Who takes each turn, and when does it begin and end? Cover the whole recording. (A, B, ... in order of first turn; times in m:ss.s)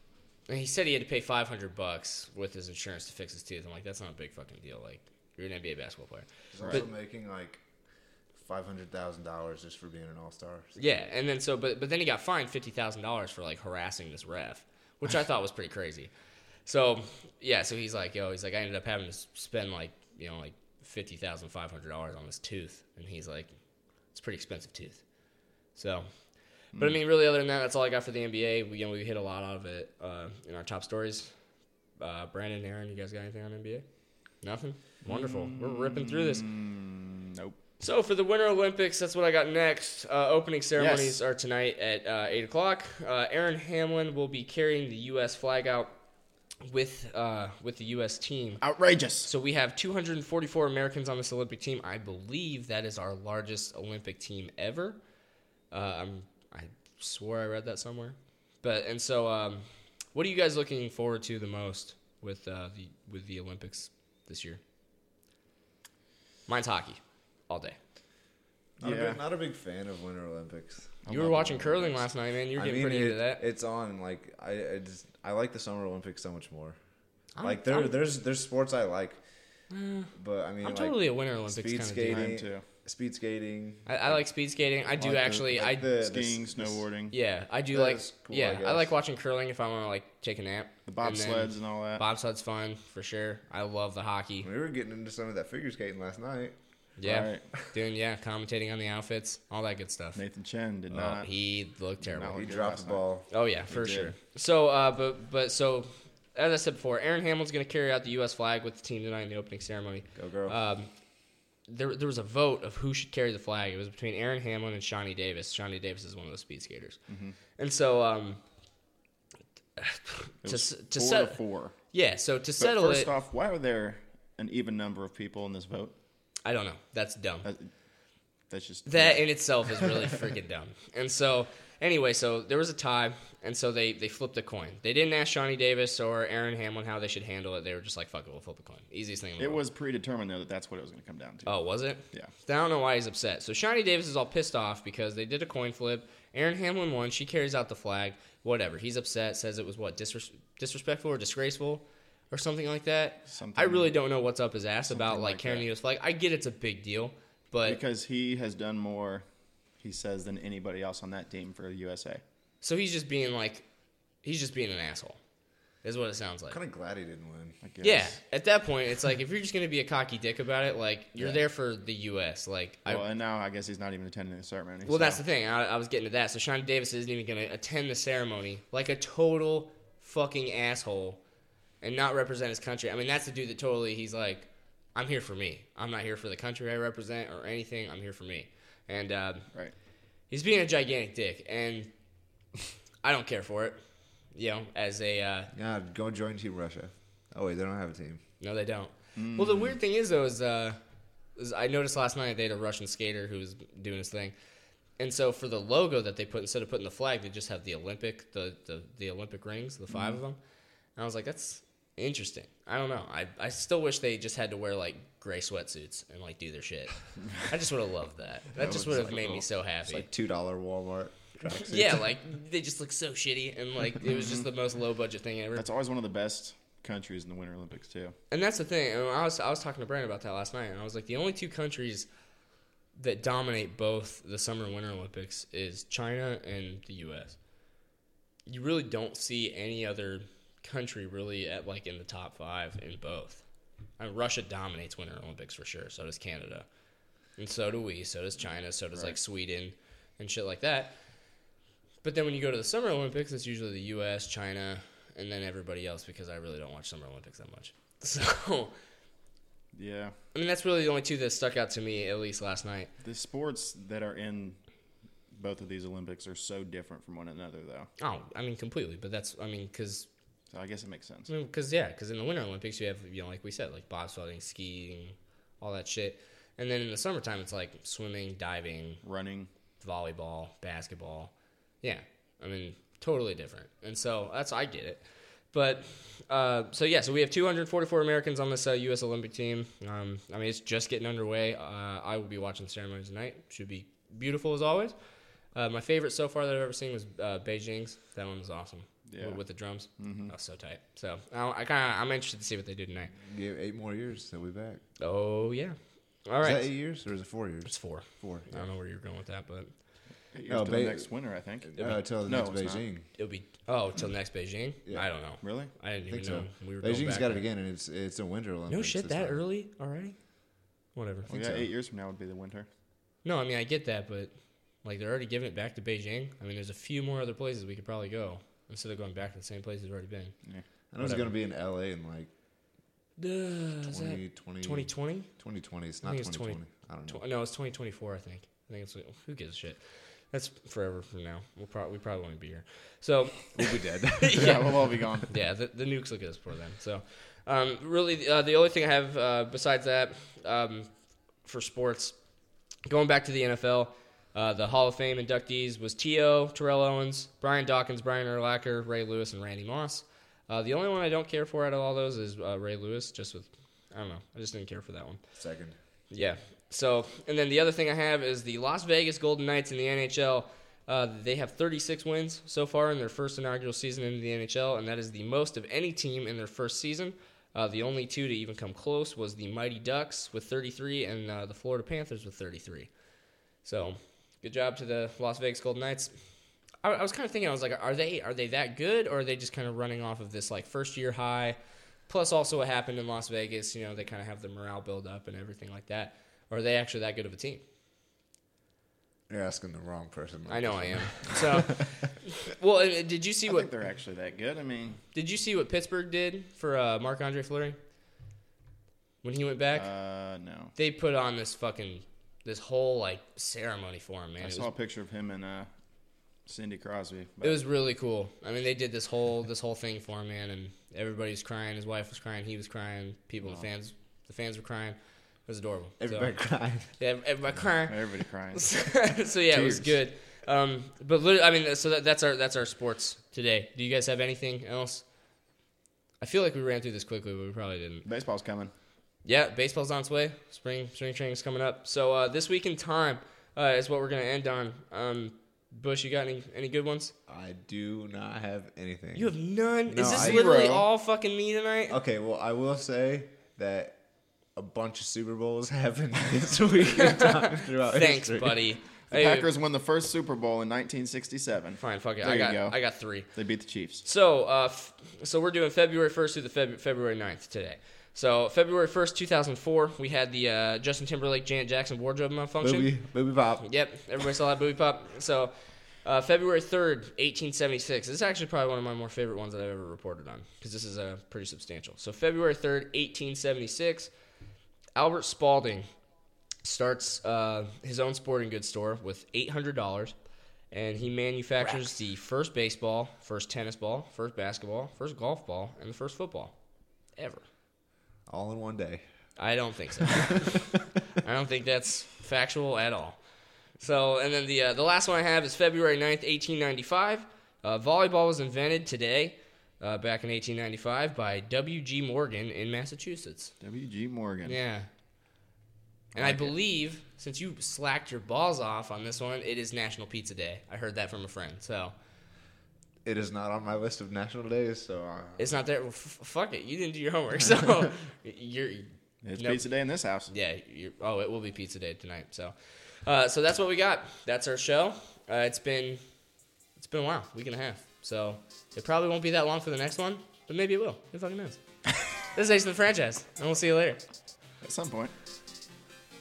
0:00.5-0:06.8 A
0:06.5-0:07.6 B
0:08.4-0:10.9 B
0:10.8-0:16.1 A
0:16.6-0:23.5 A
0:24.1-0:25.0 A
0:25.7-0:26.1 A
0:26.8-0:31.3 A
0:32.0-0:33.8 A
0:34.4-0:36.4 A
0:35.0-0:37.6 C
0:37.8-0:45.9 A
0:40.8-0:41.2 C
0:46.6-0:48.6 A
0:48.6-0:49.3 C
0:49.2-0:55.0 A
0:55.7-1:04.6 A
1:06.5-1:07.8 A
1:08.8-1:11.0 B
1:08.8-1:09.2 C
1:11.0-1:12.1 C
1:11.1-1:13.4 A
1:12.6-1:16.8 B
1:17.4-1:17.9 A
1:17.4-1:19.2 B
1:19.7-1:20.1 A
1:20.1-1:24.2 B
1:20.6-1:22.3 A
1:22.0-1:22.6 C
1:23.8-1:25.9 A
1:25.0-1:27.1 C
1:25.5-1:26.8 B
1:27.1-1:34.5 A
1:27.7-1:28.9 B
1:30.9-1:32.0 C
1:34.4-1:36.6 B
1:37.0-1:40.2 A
1:37.0-1:37.4 C
1:40.2-1:41.3 C
1:40.9-1:42.4 A
1:42.0-1:43.0 C
1:42.3-1:43.3 B
1:43.3-1:50.9 A
1:43.7-1:44.1 C
1:50.1-1:50.6 B
1:51.7-1:57.0 A
1:57.1-1:57.4 C
1:57.6-1:58.4 A
1:59.8-2:01.4 A
2:00.4-2:01.8 C
2:01.9-2:03.1 A
2:02.6-2:05.9 C
2:06.4-2:07.5 A
2:07.4-2:07.7 C
2:08.5-2:09.3 C
2:08.8-2:19.6 A
2:19.4-2:21.5 C
2:21.4-2:37.8 A
2:33.3-2:33.9 C
2:34.9-2:35.6 C
2:37.6-2:39.2 C
2:39.8-2:42.2 C
2:42.6-2:43.6 A
2:44.2-2:45.2 A
2:45.8-2:46.6 A
2:46.5-2:47.6 B
2:47.6-2:48.2 C
2:47.8-2:53.0 A
2:52.9-2:55.2 C
2:54.8-3:01.2 A
3:01.8-3:09.5 A
3:10.3-3:11.9 A
3:13.0-3:13.8 A
3:14.3-3:15.5 A
3:15.5-3:18.2 B
3:18.4-3:20.8 A
3:19.2-3:19.8 C
3:21.4-3:24.3 A
3:25.0-3:30.4 A
3:31.0-3:40.1 A
3:38.6-3:39.4 C
3:39.8-3:42.1 B
3:41.5-3:45.6 A
3:44.0-3:44.5 C
3:45.6-3:48.2 C
3:48.3-3:52.1 A
3:53.0-3:57.4 A
3:58.5-4:03.4 A
4:04.0-4:06.6 A
4:07.4-4:11.0 A
4:12.0-4:18.7 A
4:19.7-4:20.2 C
4:20.3-4:22.9 A
4:23.0-4:24.6 C
4:25.3-4:27.9 C
4:28.0-4:30.1 A
4:30.5-4:31.3 C
4:31.3-4:39.0 A
4:39.0-4:39.5 C
4:39.8-4:54.9 A
4:55.5-5:03.1 A
4:59.1-4:59.4 C
5:00.0-5:00.3 C
5:03.1-5:04.8 B
5:05.0-5:06.7 A
5:06.4-5:08.7 B
5:07.6-5:09.7 A
5:10.3-5:12.8 C
5:10.5-5:11.1 B
5:11.7-5:13.1 B
5:13.2-5:17.4 A
5:15.4-5:15.7 C
5:16.1-5:19.4 B
5:18.7-5:20.2 A
5:20.9-5:21.3 A
5:21.3-5:21.7 B
5:21.3-5:22.7 C
5:23.2-5:30.3 A
5:30.9-5:32.3 B
5:31.0-5:31.3 A
5:33.2-5:35.3 A
5:33.9-5:37.2 B
5:36.0-5:39.8 A
5:40.3-5:50.9 A
5:43.5-5:44.7 B
5:44.3-5:45.3 C
5:51.4-5:52.2 A
5:52.8-6:05.2 A
6:05.4-6:05.8 B
6:06.1-6:22.9 A
6:23.6-6:26.1 A
6:26.8-6:31.6 A
6:32.1-6:37.6 A
6:39.3-6:41.9 B
6:40.5-6:43.7 A
6:43.5-6:45.0 C
6:45.1-6:47.8 A
6:49.2-6:49.9 A
6:49.7-6:50.7 C
6:50.8-6:54.7 A
6:54.4-6:55.7 C
6:56.4-6:57.6 C
6:57.4-7:06.3 A
7:06.0-7:06.9 B
7:07.0-7:15.0 A
7:07.9-7:08.7 C
7:09.5-7:10.0 B
7:16.2-7:18.0 A
7:18.0-7:18.7 C
7:19.2-7:27.1 A
7:27.3-7:29.3 B
7:29.1-7:32.0 A
7:29.9-7:30.4 B
7:30.0-7:30.9 C
7:31.9-7:34.0 B
7:34.6-7:38.6 B
7:36.9-7:39.5 A
7:39.1-7:42.8 C
7:41.8-7:43.3 A
7:43.3-7:44.0 C
7:44.0-7:52.9 A
7:52.6-7:53.6 B
7:53.6-7:55.5 A
7:56.0-8:04.1 A
8:05.0-8:05.9 A
8:06.6-8:10.1 A
8:10.7-8:16.5 A
8:17.2-8:17.4 A
8:18.3-8:19.0 B
8:19.4-8:23.2 A
8:20.1-8:20.5 B
8:23.8-8:33.5 A
8:33.6-8:34.6 C
8:34.4-8:34.9 A
8:36.2-8:36.5 C
8:36.2-8:41.9 A
8:43.0-8:45.5 B
8:45.4-8:49.6 A
8:49.2-8:50.3 C
8:50.3-8:56.0 A
8:56.8-9:01.6 A
9:02.2-9:04.0 A
9:04.6-9:05.1 C